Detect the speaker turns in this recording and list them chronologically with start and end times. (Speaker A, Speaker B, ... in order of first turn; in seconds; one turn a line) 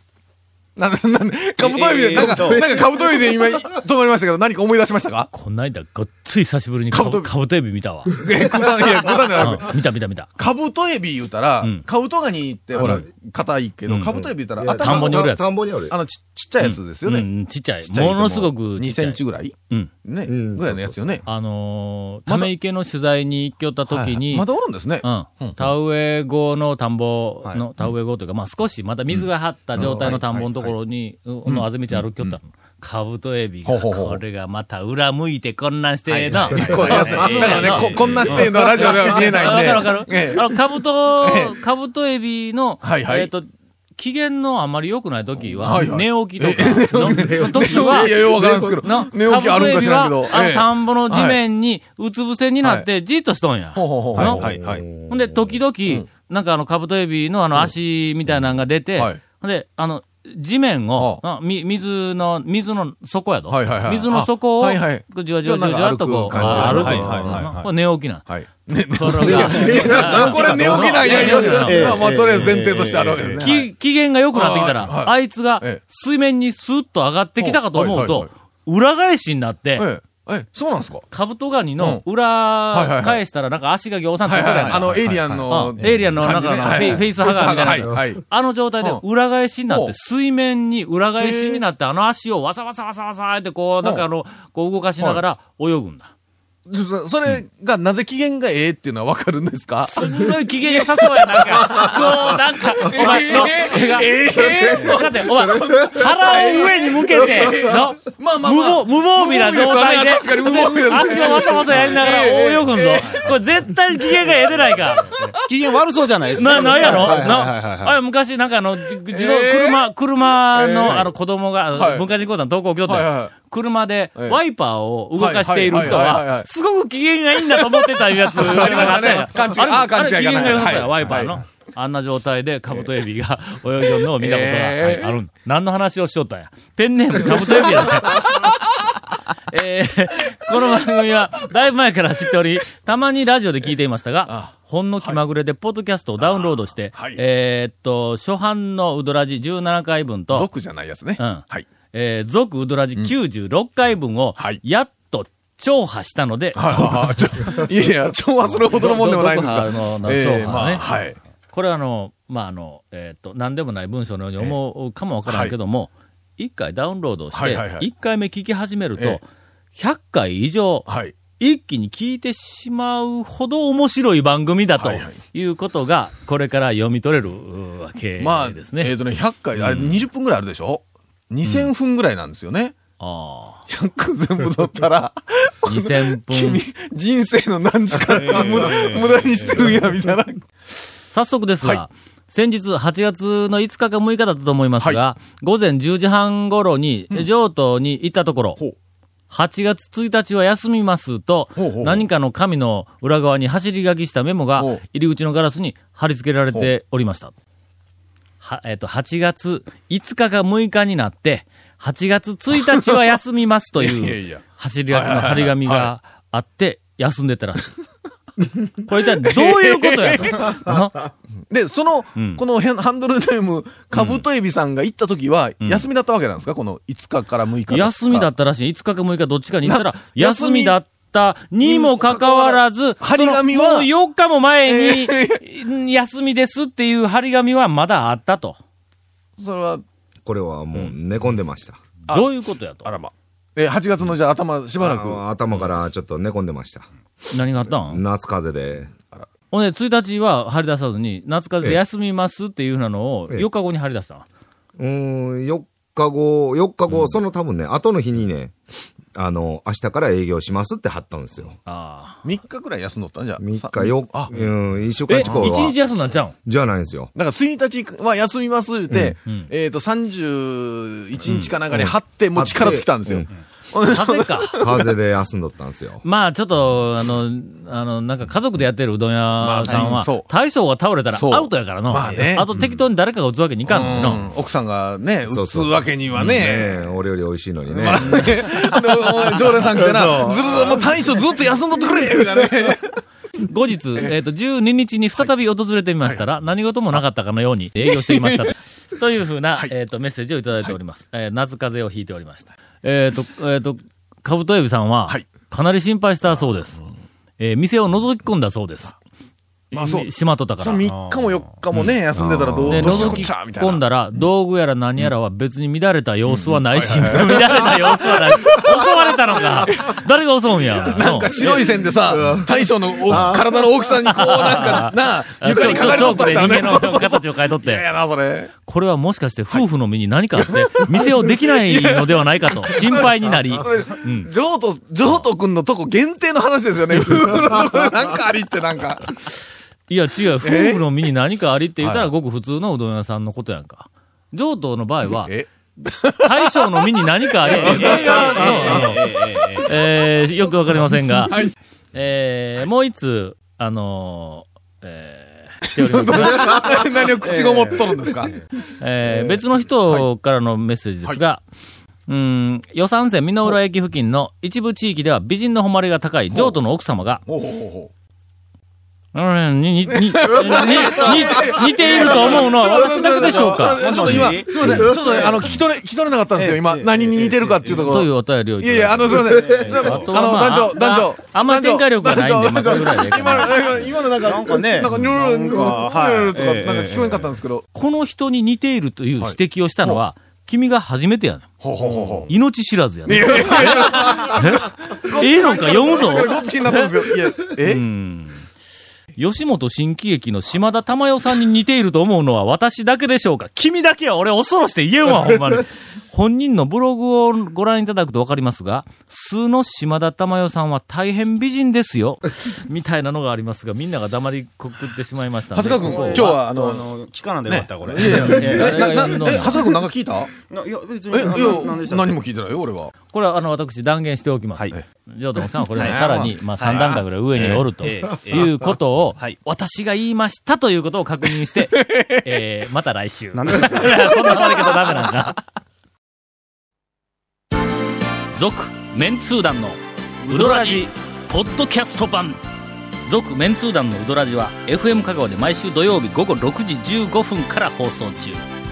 Speaker A: 0.8-5.3
Speaker B: 1.6-2.8
Speaker C: 5.3-8.1
Speaker A: 6.9-7.3
Speaker A: 8.1-9.8
Speaker C: 9.3-10.3
Speaker A: 10.4-15.3
Speaker D: 12.8-13.0
Speaker C: 13.9-14.1
Speaker D: 14.1-15.9
Speaker C: 14.7-15.4
Speaker A: 15.9-17.3
Speaker C: 16.6-19.9
Speaker A: 17.8-21.3
Speaker D: 20.2-21.1
Speaker C: 21.2-24.4
Speaker A: 23.9-25.7
Speaker C: 25.0-48.2
Speaker A: 29.1-30.2
Speaker B: 29.8-30.7
Speaker A: 31.4-32.4
Speaker A: 33.6-34.2
Speaker B: 36.1-38.9
Speaker A: 36.5-40.6
Speaker A: 41.2-41.5
Speaker A: 42.8-43.3
Speaker A: 45.6-51.4
Speaker D: 47.2-48.8
Speaker C: 48.8-54.5
Speaker A: 53.7-54.6
Speaker B: 54.1-54.9
Speaker D: 54.5-55.5
Speaker C: 55.1-72.5
Speaker A: 61.0-61.2
Speaker A: 63.5-67.5
Speaker B: 66.3-67.7
Speaker A: 68.2-73.7
Speaker D: 69.3-70.5
Speaker B: 69.3-73.5
Speaker C: 73.4-79.9
Speaker A: 74.3-75.8
Speaker A: 77.4-78.3
Speaker A: 79.8-81.1
Speaker C: 81.1-96.1
Speaker A: 82.7-83.2
Speaker A: 84.2-88.2
Speaker B: 84.5-86.1
Speaker A: 91.2-91.6
Speaker A: 96.7-100.0
Speaker C: 99.9-115.1
Speaker A: 100.7-113.3
Speaker D: 105.6-105.9
Speaker A: 114.1-115.4
Speaker B: 115.3-118.0
Speaker C: 116.3-138.5
Speaker A: 119.1-119.8
Speaker A: 120.5-121.1
Speaker A: 121.7-122.1
Speaker A: 122.8-123.3
Speaker A: 125.2-126.5
Speaker A: 127.4-131.4
Speaker A: 134.2-135.2
Speaker A: 137.3-138.5
Speaker C: 139.5-150.5
Speaker A: 144.3-145.2
Speaker A: 146.2-147.2
Speaker A: 150.3-151.7
Speaker C: 151.2-157.7
Speaker A: 156.5-161.2
Speaker C: 158.5-160.8
Speaker C: 161.5-170.9
Speaker A: 165.2-165.5
Speaker A: 167.3-167.9
Speaker A: 170.9-171.1
Speaker C: 171.4-178.9
Speaker A: 174.8-175.2
Speaker A: 178.2-182.7
Speaker C: 179.6-180.0
Speaker C: 181.4-181.7
Speaker C: 183.0-183.7
Speaker A: 183.7-190.5
Speaker C: 185.6-186.6
Speaker B: 188.2-189.1
Speaker C: 191.1-198.6
Speaker C: 199.3-207.3
Speaker A: 201.6-202.1
Speaker C: 208.4-217.7
Speaker A: 212.7-213.0
Speaker A: 213.8-215.9
Speaker C: 218.8-221.1
Speaker A: 219.2-220.6
Speaker A: 221.5-228.3
Speaker C: 222.2-222.4
Speaker C: 223.9-224.2
Speaker C: 227.7-238.6
Speaker A: 229.6-230.8
Speaker A: 231.6-233.9
Speaker A: 234.7-235.4
Speaker A: 239.4-239.8
Speaker D: 240.2-241.8
Speaker C: 242.1-242.9
Speaker A: 242.8-245.2
Speaker D: 244.8-246.8
Speaker C: 247.3-248.0
Speaker D: 247.8-248.9
Speaker C: 249.5-254.2
Speaker D: 254.8-258.6
Speaker D: 259.1-261.6
Speaker C: 261.6-262.2
Speaker A: 262.2-264.3
Speaker D: 263.4-265.8
Speaker C: 265.1-266.3
Speaker A: 265.2-265.7
Speaker D: 266.4-267.1
Speaker A: 267.1-274.9
Speaker D: 271.7-273.3
Speaker C: 273.9-274.6
Speaker D: 274.6-276.0
Speaker C: 276.0-284.2
Speaker A: 279.4-280.3
Speaker A: 281.1-282.5
Speaker B: 282.2-282.6
Speaker A: 283.7-286.8
Speaker D: 285.3-288.6
Speaker A: 287.7-293.0
Speaker D: 289.6-290.9
Speaker C: 293.4-306.8
Speaker A: 297.9-298.5
Speaker C: 307.4-308.9
Speaker C: 309.7-310.8
Speaker A: 309.7-314.2
Speaker B: 310.9-311.4
Speaker D: 312.1-313.2
Speaker C: 312.6-321.6
Speaker A: 316.3-319.1
Speaker A: 320.8-328.5
Speaker D: 322.1-322.5
Speaker C: 324.1-327.8
Speaker C: 328.6-334.3
Speaker A: 330.4-339.1
Speaker C: 339.9-345.3
Speaker A: 340.4-340.9
Speaker A: 341.8-342.1
Speaker A: 345.1-348.9
Speaker C: 346.2-351.4
Speaker B: 347.5-349.9
Speaker A: 350.9-351.5
Speaker C: 351.9-356.8
Speaker A: 355.6-358.5
Speaker B: 357.2-358.4
Speaker C: 358.8-361.4
Speaker A: 359.0-360.1
Speaker C: 362.1-367.2
Speaker A: 367.3-367.9
Speaker C: 369.1-374.4
Speaker A: 369.9-387.6
Speaker B: 371.9-375.6
Speaker B: 376.4-378.0
Speaker C: 377.8-383.9
Speaker B: 379.3-380.1
Speaker B: 384.2-387.3
Speaker C: 387.7-396.8
Speaker A: 389.2-390.0
Speaker A: 391.6-392.3
Speaker A: 393.1-397.8
Speaker C: 397.6-398.4
Speaker C: 399.2-416.3
Speaker A: 415.5-416.8
Speaker B: 415.8-419.7
Speaker A: 417.4-420.3
Speaker C: 418.0-419.6
Speaker B: 420.4-422.1
Speaker A: 421.1-422.9
Speaker C: 423.1-435.4
Speaker B: 425.7-429.4
Speaker A: 425.8-427.6
Speaker A: 431.7-432.2
Speaker B: 433.3-434.6
Speaker C: 438.4-442.4
Speaker B: 440.3-440.9
Speaker C: 443.1-448.4